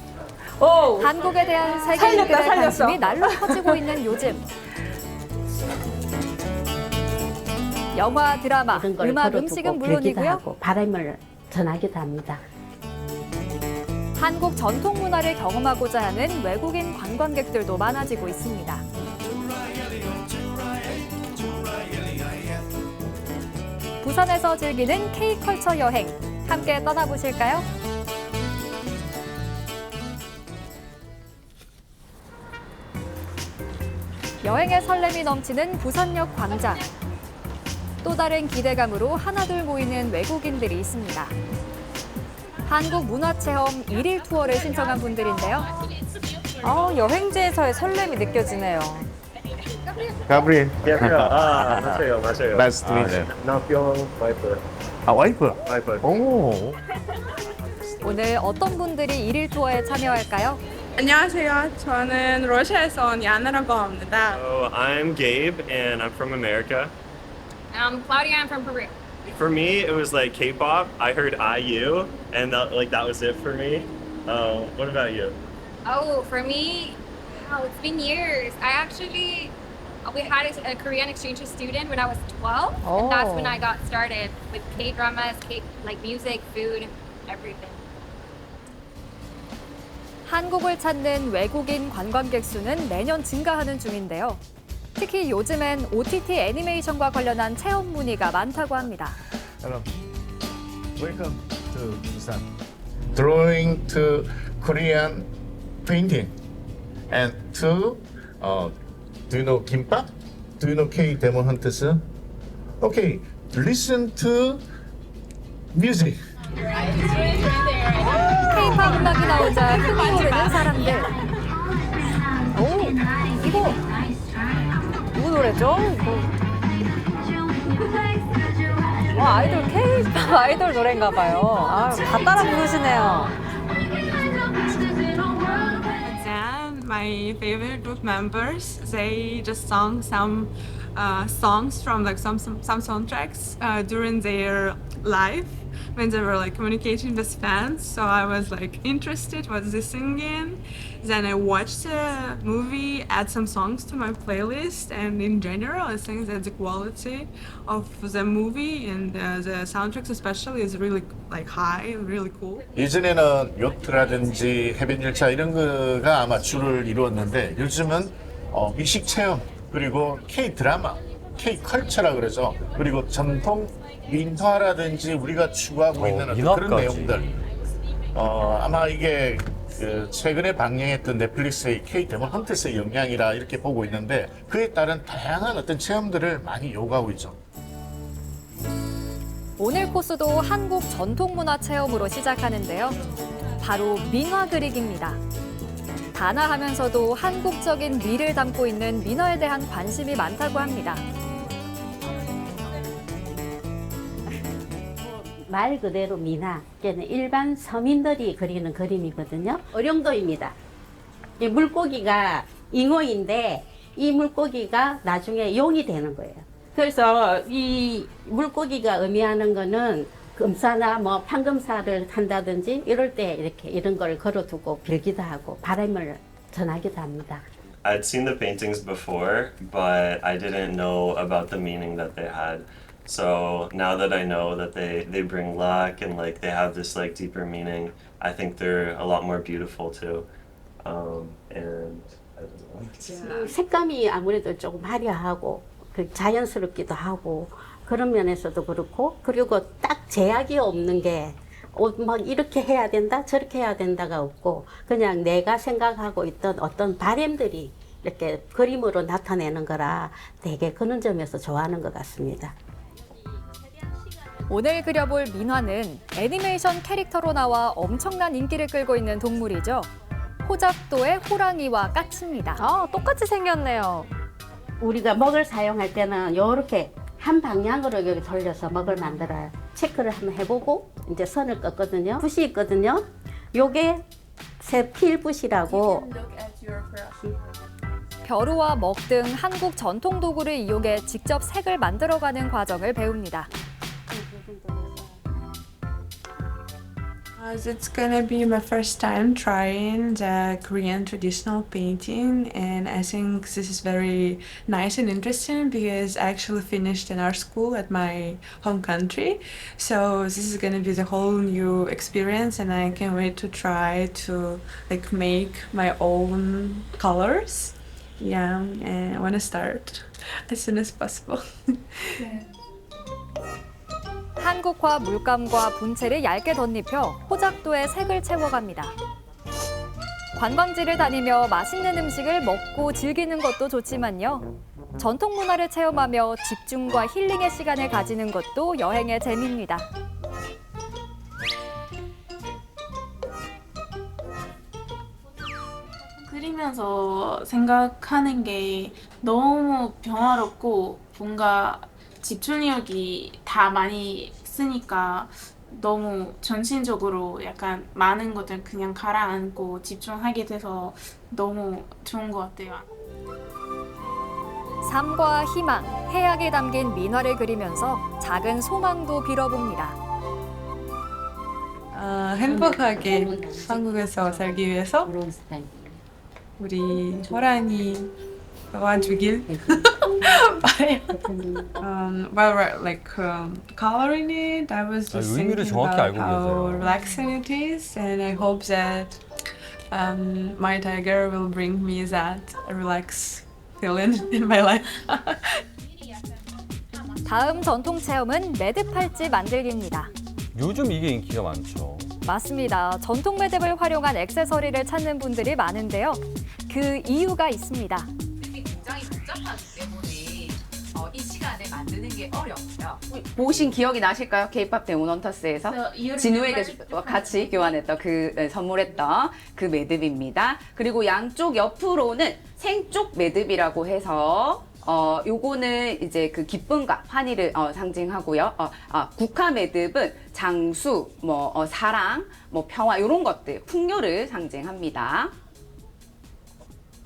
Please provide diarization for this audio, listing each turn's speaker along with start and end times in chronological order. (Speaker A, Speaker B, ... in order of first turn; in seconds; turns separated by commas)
Speaker A: 0.6-1.1, Speaker B: 1.0-4.4, Speaker A: 1.9-3.2, Speaker B: 7.9-10.4, Speaker C: 8.7-12.4, Speaker B: 14.2-18.8, Speaker B: 24.0-27.6, Speaker B: 34.4-36.9, Speaker B: 38.0-41.3, Speaker B: 42.6-45.6, Speaker D: 44.2-48.8, Speaker A: 46.6-49.1, Speaker D: 49.6-50.3, Speaker E: 50.3-53.3, Speaker F: 50.8-54.6, Speaker E: 55.1-56.7, Speaker F: 55.6-56.2, Speaker B: 58.0-60.6, Speaker G: 61.0-64.4, Speaker F: 64.3-66.9, Speaker H: 67.7-68.9, Speaker F: 69.3-75.4, Speaker H: 75.8-79.5, Speaker H: 80.0-87.8, Speaker A: 82.8-83.6, Speaker B: 90.2-94.4, Speaker B: 95.0-99.2, Speaker E: 101.0-102.4, Speaker E: 103.1-105.3, Speaker E: 105.8-106.3, Speaker E: 107.1-108.7, Speaker E: 109.3-112.0, Speaker E: 112.8-114.6, Speaker E: 115.7-116.2, Speaker D: 116.5-121.0, Speaker B: 118.4-121.1, Speaker A: 122.5-123.8, Speaker A: 125.1-126.3, Speaker A: 129.1-133.3, Speaker G: 136.0-162.6, Speaker E: 162.7-177.3, Speaker I: 175.9-177.2, Speaker E: 178.1-187.4, Speaker B: 189.6-192.9, Speaker B: 193.6-195.2, Speaker B: 196.1-201.0, Speaker C: 205.0-210.6, Speaker C: 211.4-227.4, Speaker F: 227.8-240.3, Speaker F: 240.8-243.2, Speaker G: 243.0-243.5, Speaker C: 243.2-262.5, Speaker B: 264.5-269.9, Speaker B: 270.4-272.6, Speaker A: 272.6-274.1, Speaker C: 274.8-284.0, Speaker C: 284.6-286.1, Speaker D: 285.7-287.3, Speaker B: 288.2-293.5, Speaker C: 294.1-295.2, Speaker G: 297.4-322.4, Speaker B: 324.4-328.9, Speaker B: 330.4-334.4, Speaker B: 335.0-339.9, Speaker D: 346.2-362.9, Speaker B: 364.8-370.0, Speaker G: 371.9-375.1, Speaker C: 372.4-374.0, Speaker C: 375.1-375.9, Speaker G: 376.6-378.1, Speaker G: 378.7-389.2, Speaker C: 379.5-380.2, Speaker C: 381.3-381.7, Speaker I: 385.1-386.9, Speaker G: 389.9-395.6, Speaker B: 397.2-400.1, Speaker I: 400.5-402.1, Speaker B: 402.2-408.1, Speaker J: 408.4-435.3, Speaker D: 415.6-417.8